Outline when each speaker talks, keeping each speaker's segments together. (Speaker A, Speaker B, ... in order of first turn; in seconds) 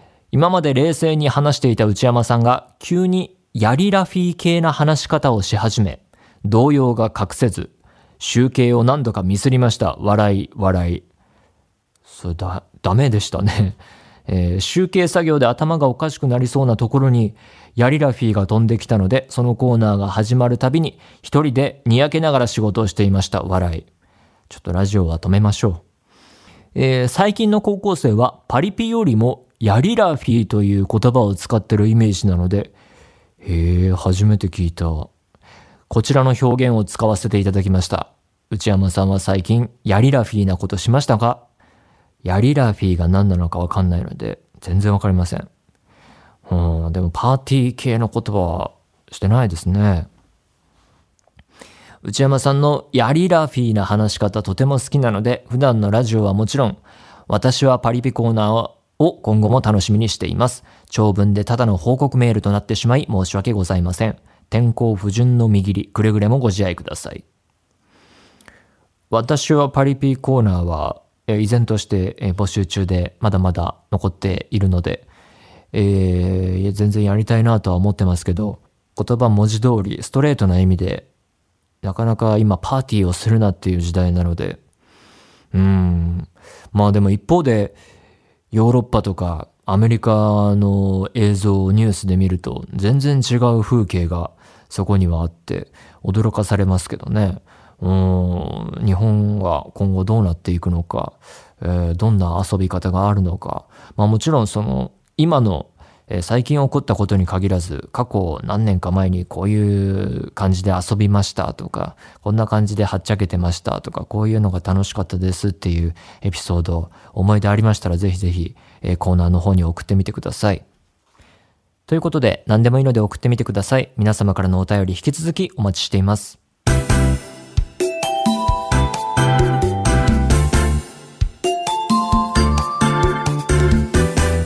Speaker A: 0.3-11.1, 12.1-23.9, 24.5-25.8, 26.8-32.8, 33.4-35.1, 35.9-41.4, 42.2-45.5, 46.5-50.1, 52.0-67.2, 69.1-75.1, 75.7-81.1, 81.8-84.6, 85.5-87.8, 88.5-120.7, 121.9-126.4